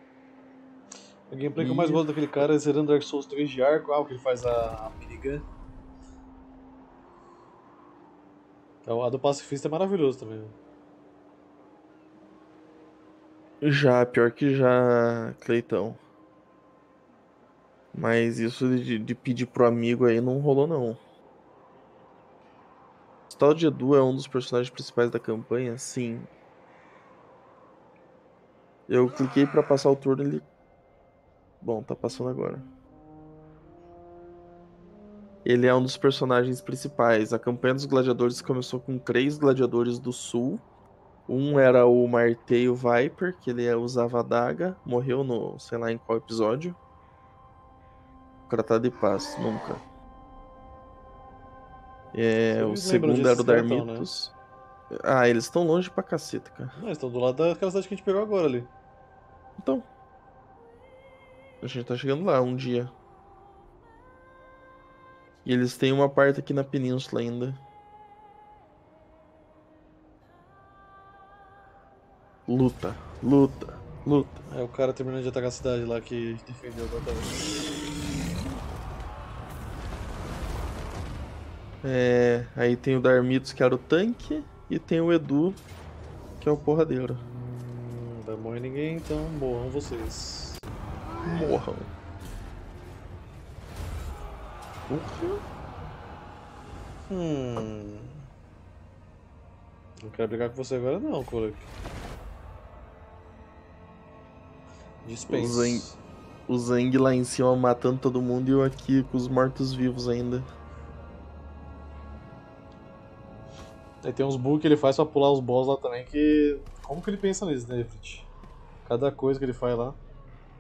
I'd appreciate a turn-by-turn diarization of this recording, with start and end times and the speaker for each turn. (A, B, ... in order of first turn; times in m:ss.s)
0:01.3-0:05.5 A
0:01.6-0:02.1 B
0:08.8-0:10.6 A
0:13.6-0:16.0 B
0:17.9-0:21.0 B
0:23.3-0:26.3 B
0:28.9-0:30.4 B
0:31.6-0:32.7 B
0:35.4-0:40.6 B
0:41.3-0:46.8 B
0:48.5-0:49.8 B
0:52.1-0:54.3 B
0:52.5-0:54.1 A
0:54.9-0:56.8 B
0:56.8-0:58.7 A
0:59.6-0:59.9 B
1:01.6-1:02.9 B
1:05.4-1:07.6 B
1:12.5-1:14.4 B
1:14.5-1:17.8 A
1:21.8-1:25.6 B
1:26.4-1:27.2 B
1:27.2-1:30.6 A
1:31.2-1:31.9 B
1:34.9-1:35.4 B
1:37.1-1:38.3 A
1:40.0-1:41.7 A
1:45.0-1:46.0 A
1:45.3-1:45.9 B
1:46.5-1:50.5 B
1:54.0-1:58.3 A
1:58.8-2:00.0 A